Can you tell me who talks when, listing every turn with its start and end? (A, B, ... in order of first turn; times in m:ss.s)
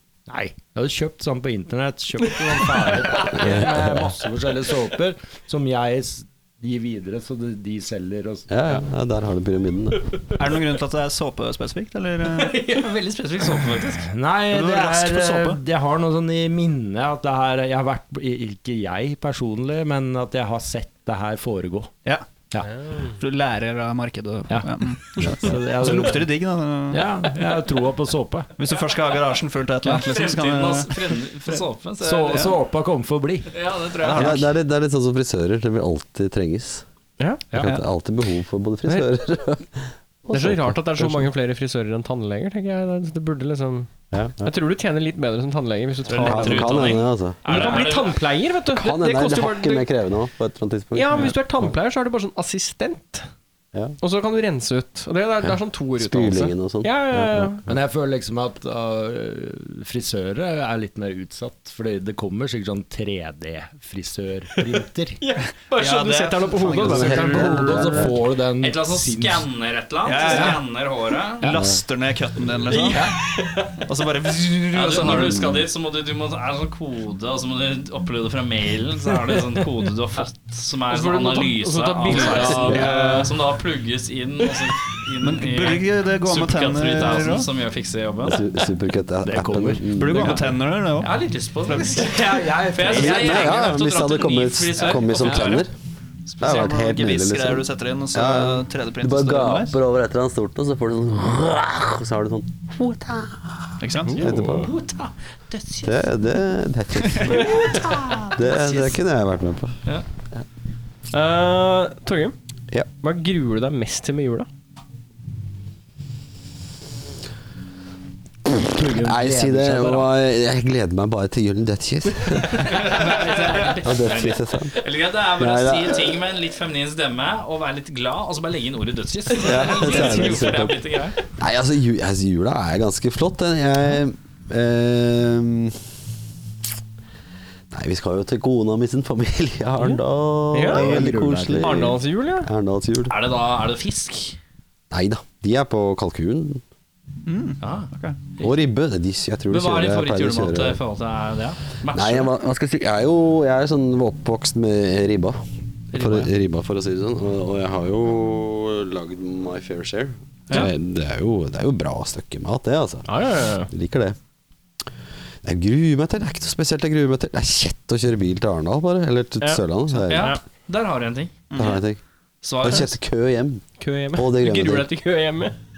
0:00.3-0:08.4 A
0:03.3-0:04.1 B
0:08.5-0:10.1 B
0:10.3-0:12.6 C
0:12.3-0:14.1 D
0:14.0-0:21.9 A
0:14.5-0:15.6 C
0:23.2-0:27.3 C
0:24.5-0:26.3 A
0:25.2-0:25.5 B
0:26.9-0:28.5 A
0:28.6-0:31.6 C
0:29.8-0:32.6 D
0:32.0-0:33.6 A
0:33.5-0:34.4 D
0:34.0-0:34.4 C
0:34.0-0:36.8 B
0:37.2-0:37.5 E
0:37.6-0:41.3 B
0:40.3-0:49.9 E
0:44.1-0:44.5 B
0:46.1-0:48.2 D
0:46.1-0:47.8 B
0:48.7-0:51.8 B
0:50.9-0:53.3 E
0:54.0-0:57.6 E
0:55.4-0:57.7 B
0:57.7-1:05.2 A
1:05.2-1:07.7 E
1:05.8-1:07.5 C
1:06.8-1:08.1 B
1:06.9-1:09.4 A
1:08.6-1:11.5 D
1:10.0-1:10.6 C
1:11.4-1:13.1 C
1:11.5-1:11.8 B
1:12.7-1:13.8 E
1:12.9-1:13.2 A
1:13.8-1:15.4 C
1:14.7-1:28.4 D
1:15.0-1:15.6 B
1:20.9-1:23.3 E
1:22.4-1:22.9 B
1:25.2-1:27.5 C
1:28.2-1:30.4 B
1:29.2-1:29.9 A
1:29.9-1:31.1 C
1:30.1-1:35.6 D
1:31.6-1:32.1 C
1:32.0-1:33.6 A
1:32.9-1:35.7 B
1:35.2-1:35.6 C
1:36.3-1:36.8 D
1:36.4-1:39.8 C
1:36.4-1:44.7 B
1:43.8-1:44.3 C
1:44.1-1:44.6 E
1:44.3-1:46.0 D
1:45.8-1:49.8 B
1:47.0-1:47.5 C
1:47.3-1:49.0 D
1:51.1-1:52.3 E
1:53.0-1:54.5 E
1:58.5-2:06.3 B
1:58.6-2:00.1 A
2:02.5-2:11.2 D
2:09.3-2:15.8 B
2:17.7-2:23.2 B
2:20.5-2:21.1 E
2:20.7-2:21.8 A
2:21.6-2:22.5 E
2:23.1-2:24.4 D
2:24.9-2:26.6 B
2:27.2-2:28.2 C
2:27.6-2:28.5 D
2:28.4-2:30.8 B
2:29.5-2:32.3 D
2:31.9-2:35.4 B
2:35.9-2:36.3 D
2:35.9-2:43.1 B
2:43.1-2:43.7 E
2:43.6-2:44.2 B
2:45.4-2:50.3 B
2:49.4-2:50.4 E
2:50.1-2:51.4 D
2:51.5-2:51.8 C
2:51.5-2:52.0 B
2:52.4-2:52.9 D
2:52.6-2:54.9 B
2:53.8-2:55.6 E